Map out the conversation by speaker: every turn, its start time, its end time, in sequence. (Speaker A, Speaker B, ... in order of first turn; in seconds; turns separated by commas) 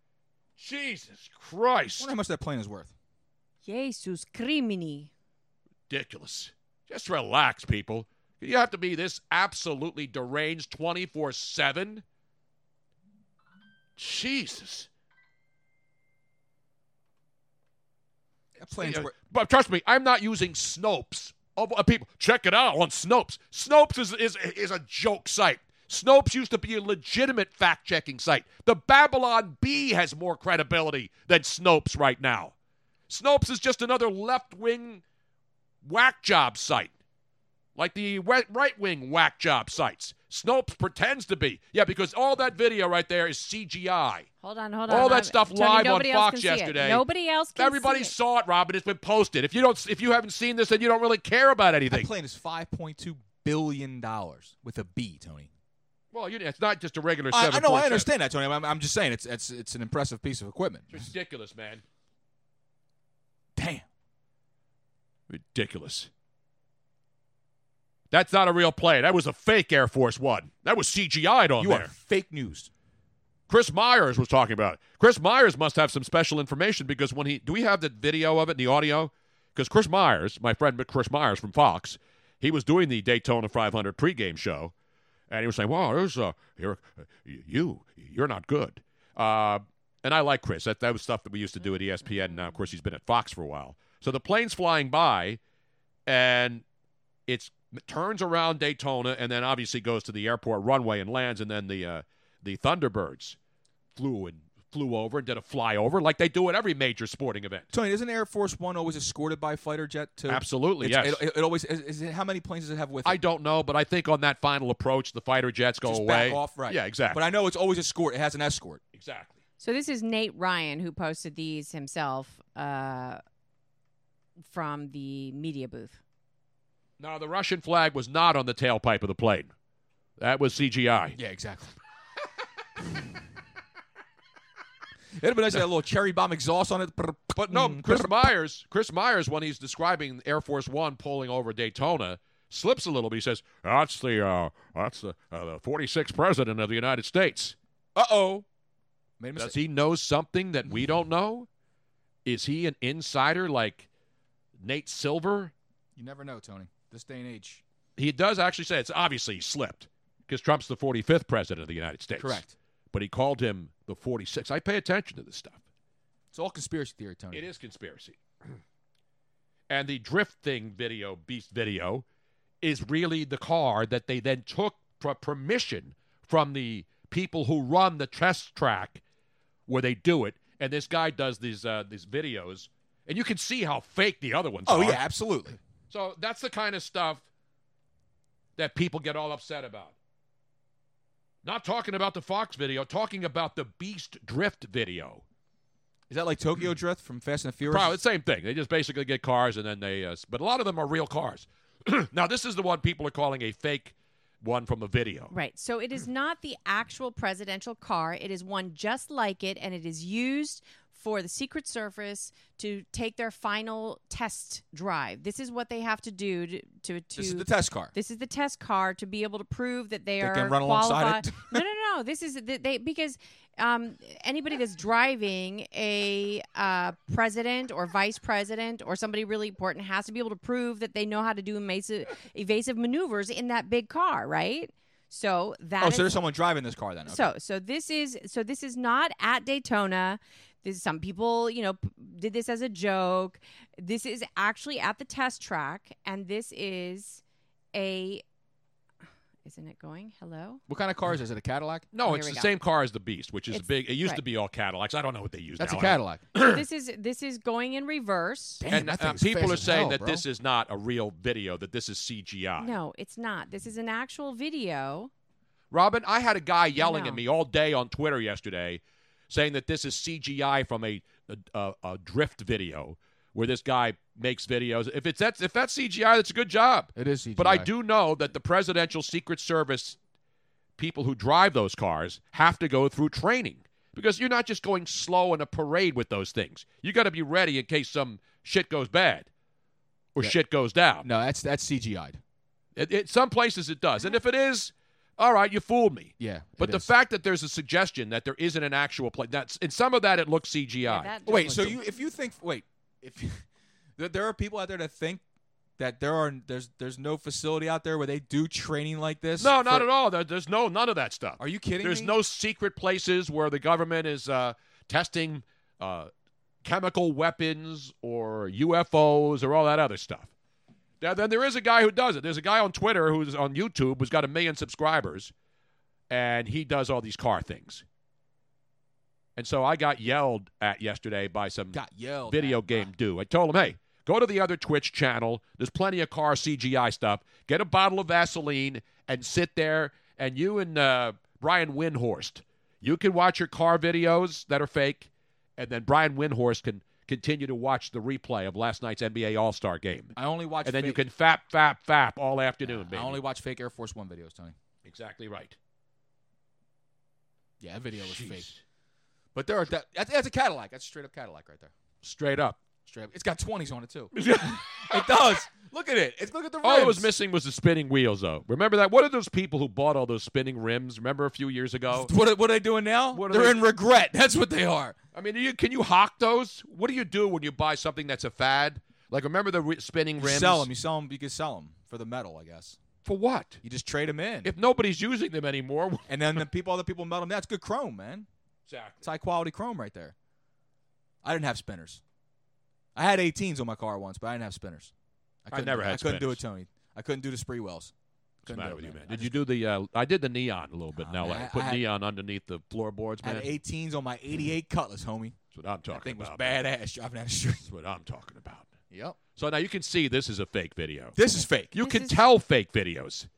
Speaker A: 0.6-2.1, Speaker B: 2.0-2.9, Speaker C: 3.6-5.1, Speaker A: 5.9-12.0, Speaker A: 14.0-14.9, Speaker B: 18.6-19.1, Speaker A: 18.8-32.5, Speaker A: 33.1-35.0, Speaker A: 35.8-36.9, Speaker A: 37.8-44.3, Speaker C: 44.4-48.1, Speaker A: 44.9-47.0, Speaker A: 47.6-52.1, Speaker B: 51.9-55.5, Speaker A: 56.1-58.1, Speaker B: 57.3-61.1, Speaker A: 60.9-61.8, Speaker B: 63.6-63.9, Speaker A: 65.3-66.1, Speaker A: 68.1-71.9, Speaker B: 71.6-72.7, Speaker A: 73.5-84.7, Speaker A: 85.3-95.4, Speaker C: 92.0-92.6, Speaker A: 96.1-96.6, Speaker A: 97.3-103.4, Speaker A: 104.0-107.7, Speaker B: 107.7-113.2, Speaker A: 110.3-111.2, Speaker A: 113.0-117.2, Speaker B: 115.8-118.8, Speaker A: 118.9-119.4, Speaker C: 119.6-123.2, Speaker C: 124.5-126.0, Speaker A: 127.0-129.5, Speaker A: 130.2-131.2, Speaker B: 131.2-131.8, Speaker B: 135.2-138.2, Speaker A: 137.4-147.6, Speaker B: 147.9-148.5, Speaker B: 149.2-149.6, Speaker A: 149.4-151.5, Speaker A: 152.2-153.9, Speaker A: 154.6-155.5, Speaker B: 156.0-157.6, Speaker A: 158.0-165.6, Speaker B: 162.2-162.5, Speaker B: 166.3-167.5, Speaker A: 167.3-168.6, Speaker A: 169.7-172.1, Speaker A: 172.6-179.0, Speaker A: 179.7-185.0, Speaker B: 184.7-185.6, Speaker A: 185.9-187.3, Speaker A: 188.6-189.9, Speaker A: 191.4-195.2, Speaker B: 196.1-198.0, Speaker A: 197.7-205.3, Speaker C: 205.3-236.1, Speaker B: 217.2-217.9, Speaker B: 220.2-221.6, Speaker B: 235.8-237.3, Speaker C: 237.1-247.2, Speaker C: 247.7-248.2, Speaker C: 249.4-250.6, Speaker B: 250.7-251.9, Speaker A: 251.9-256.6, Speaker C: 252.0-252.5, Speaker C: 253.5-254.2, Speaker B: 255.6-256.2, Speaker C: 256.4-258.6, Speaker B: 258.6-260.2, Speaker A: 258.7-262.8, Speaker C: 262.6-265.1, Speaker A: 265.7-280.0, Speaker C: 266.8-267.2, Speaker B: 276.9-277.7, Speaker A: 280.8-289.3, Speaker A: 290.1-291.1, Speaker B: 291.0-292.2, Speaker A: 292.8-301.2, Speaker B: 296.2-296.9, Speaker C: 300.9-301.8, Speaker B: 301.3-303.4, Speaker B: 304.0-305.2, Speaker B: 305.8-309.9, Speaker A: 309.4-316.1, Speaker B: 311.4-312.1, Speaker A: 316.6-320.3, Speaker A: 321.0-325.3, Speaker A: 326.1-327.8, Speaker A: 329.4-353.2, Speaker B: 331.7-332.9, Speaker B: 350.2-351.1, Speaker B: 352.6-354.6, Speaker A: 354.9-355.6, Speaker B: 357.6-358.5, Speaker A: 358.0-358.6, Speaker B: 359.4-361.7, Speaker A: 362.0-362.6, Speaker B: 362.9-367.1, Speaker A: 364.1-365.2, Speaker A: 366.6-372.1, Speaker B: 371.9-375.0, Speaker A: 373.1-373.6, Speaker A: 375.1-380.7, Speaker B: 380.2-382.8, Speaker A: 383.0-383.6, Speaker B: 383.6-384.5, Speaker A: 384.4-386.4, Speaker B: 386.1-388.3, Speaker A: 388.7-389.1, Speaker B: 389.0-390.1, Speaker B: 391.2-392.0, Speaker B: 392.9-394.9, Speaker B: 395.4-399.4, Speaker A: 395.5-396.4, Speaker A: 398.5-403.5, Speaker B: 401.0-401.8, Speaker B: 403.2-405.4, Speaker A: 405.5-406.6, Speaker B: 405.9-407.6, Speaker A: 407.6-408.7, Speaker B: 408.9-409.2, Speaker A: 409.4-411.2, Speaker B: 411.2-411.7, Speaker A: 411.7-413.3, Speaker C: 411.8-412.2